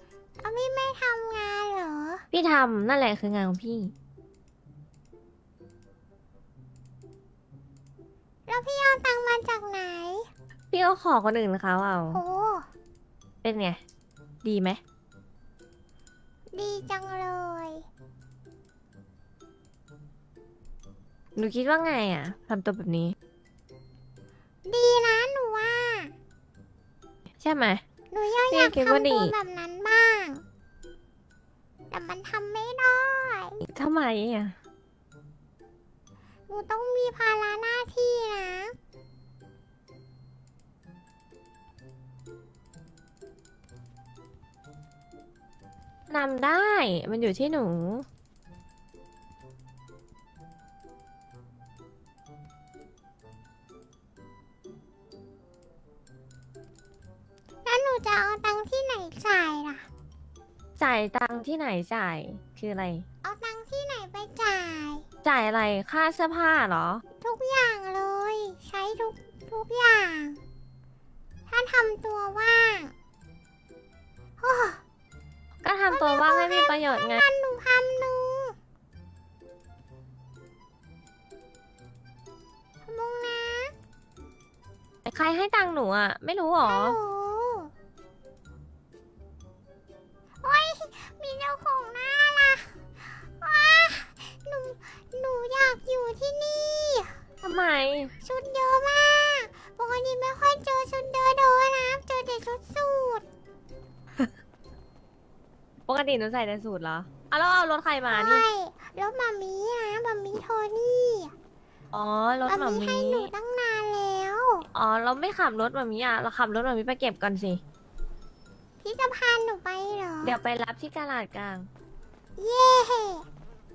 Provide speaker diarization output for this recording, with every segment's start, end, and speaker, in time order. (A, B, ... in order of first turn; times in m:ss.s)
0:00.4-0:02.2 A
0:02.3-0:03.9 B
0:08.5-0:10.3 A
0:10.7-0:12.2 B
0:12.1-0:12.7 A
0:13.4-0:13.8 B
0:14.4-0:14.8 B
0:16.5-0:17.9 A
0:21.4-0:23.1 B
0:24.6-0:26.1 A
0:27.4-0:27.8 B
0:28.1-0:30.4 A
0:28.5-0:29.3 B
0:31.9-0:33.6 A
0:33.6-0:34.5 B
0:36.5-0:38.7 A
0:46.1-0:48.0 B
0:57.6-0:59.9 A
1:00.8-1:03.0 B
1:03.2-1:05.0 A
1:05.2-1:07.0 B
1:07.2-1:10.4 A
1:11.5-1:12.9 A
1:14.4-1:14.8 A
1:15.6-1:17.2 B
1:15.9-1:18.6 A
1:22.8-1:23.7 A
1:25.0-1:27.0 B
1:26.6-1:27.7 A
1:30.4-1:37.2 A
1:37.4-1:38.1 B
1:38.2-1:43.2 A
1:45.9-1:48.4 B
1:48.1-1:51.3 A
1:51.9-1:53.3 B
1:52.5-1:54.6 A
1:54.7-1:57.6 B
1:58.8-2:00.4 A
2:00.2-2:01.7 B
2:02.4-2:03.3 A